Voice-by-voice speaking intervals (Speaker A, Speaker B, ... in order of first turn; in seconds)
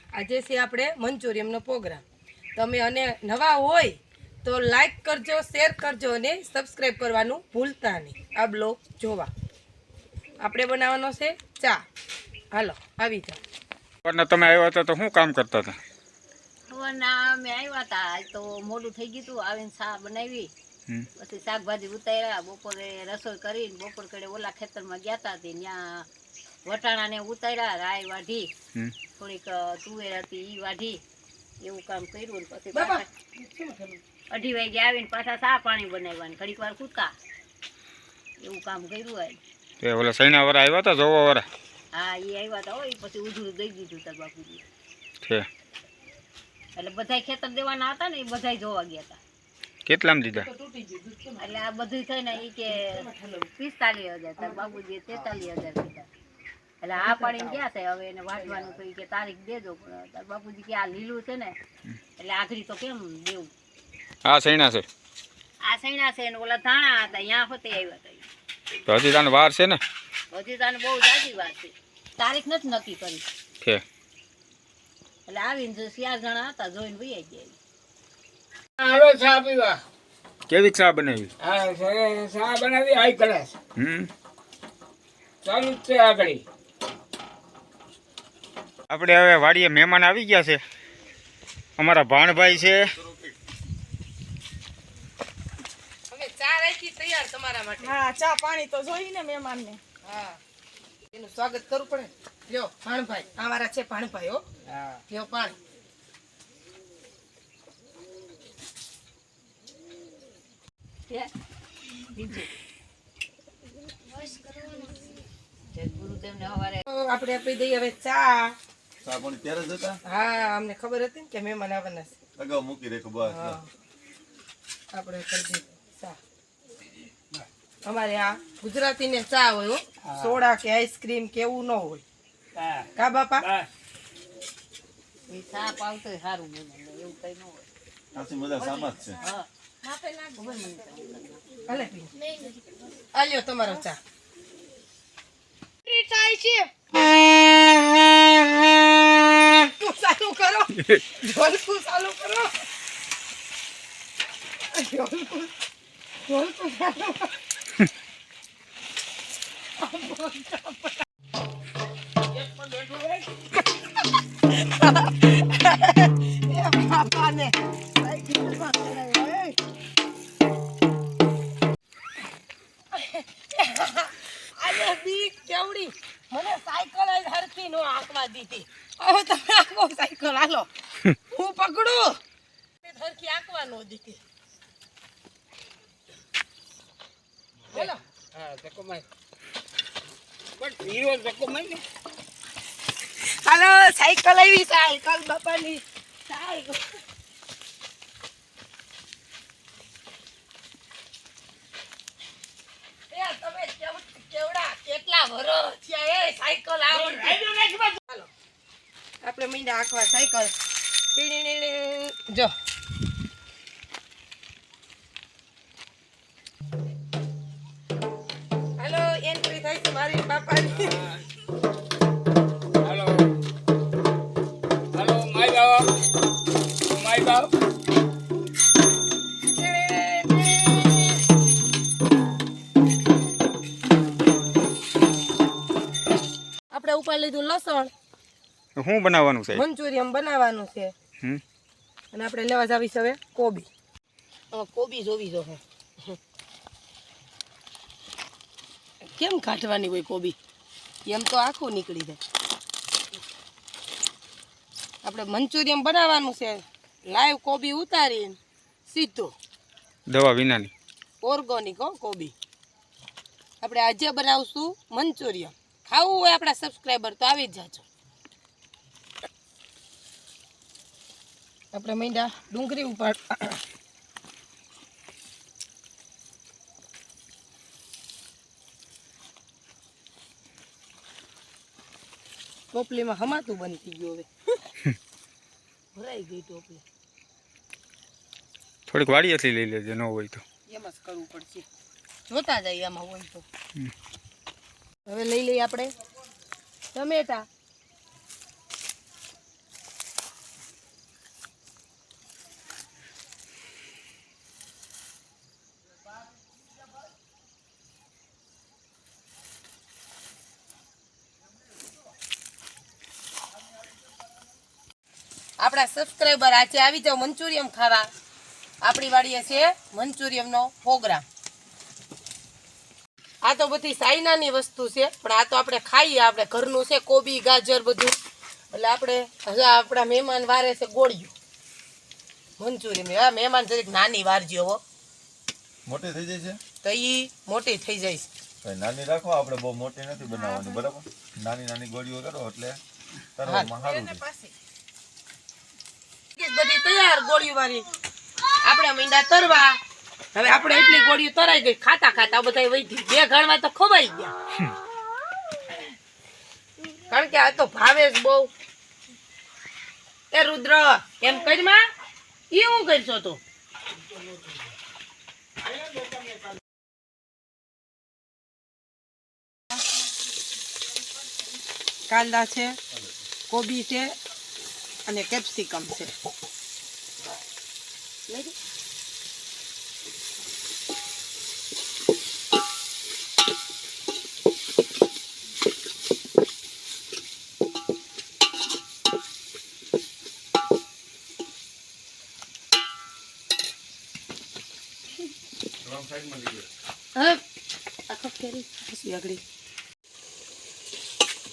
Speaker A: 0.1-2.0, 2.5-9.3, 10.4-11.8, 12.5-13.4, 32.7-34.0, 50.3-51.6, 52.7-53.5, 54.4-54.8, 57.0-57.6, 58.3-58.8, 96.1-98.0, 100.0-100.4, 101.1-104.4, 105.1-105.5, 116.9-118.5, 120.0-122.1, 123.2-123.7, 124.9-126.2, 127.8-132.0, 132.9-133.4, 139.9-140.3, 141.7-142.2, 143.1-144.0, 145.9-146.7, 149.5-152.5, 154.7-155.5, 156.2-157.3, 159.8-161.0, 164.4-169.6, 172.9-180.7, 181.3-182.2, 182.8-184.2, 187.7-188.0, 193.2-196.8, 203.1-208.3, 209.2-210.5, 211.1-212.5, 218.8-221.0, 229.5-230.9, 236.7-237.9, 239.5-240.9, 242.1-243.7, 244.5-246.2, 249.1-250.3, 251.1-252.2, 255.0-259.3, 261.2-262.3, 263.6-267.8, 271.7-273.6, 282.7-284.3, 285.9-286.8, 290.7-291.6, 292.3-293.4, 295.1-295.9, 296.9-297.4, 315.6-318.1, 318.8-321.2, 323.4-328.1, 328.7-331.3, 332.6-334.8, 336.8-338.3, 343.4-344.5, 346.3-347.9, 348.6-349.8, 350.3-354.3, 357.1-358.5, 360.3-361.9, 362.5-363.4, 372.1-372.8, 373.5-374.1, 375.1-376.1, 378.3-378.5, 397.1-397.4, 398.1-399.4
Speaker B: 14.0-15.8, 39.8-41.5, 45.2-45.5, 49.9-50.5, 64.2-64.8, 68.9-69.8, 80.5-81.3, 83.8-84.1, 88.9-90.6, 91.8-92.9, 238.8-239.6, 260.1-260.7, 288.9-290.4
Speaker C: 16.7-20.5, 21.2-26.1, 26.6-28.5, 29.2-31.0, 31.6-33.1, 34.3-37.1, 38.4-39.4, 41.9-44.6, 46.8-49.2, 51.4-52.8, 53.6-56.1, 56.8-61.5, 62.2-63.5, 65.6-68.2, 70.3-73.2, 75.3-77.6, 112.1-112.5, 115.7-116.8, 135.3-137.7, 138.6-139.5, 140.3-141.6
Speaker D: 78.8-79.8, 81.4-83.5, 85.4-86.4, 130.0-130.3, 132.6-132.9, 133.4-133.7, 162.4-163.2, 187.7-189.0, 190.6-191.8, 220.8-221.2, 222.8-223.3, 224.9-225.9, 226.9-227.5
Speaker E: 92.4-93.3, 119.0-120.0, 122.4-123.6, 138.1-139.2, 335.9-336.6, 338.6-342.8, 343.4-344.2, 395.8-396.6
Speaker F: 97.8-99.8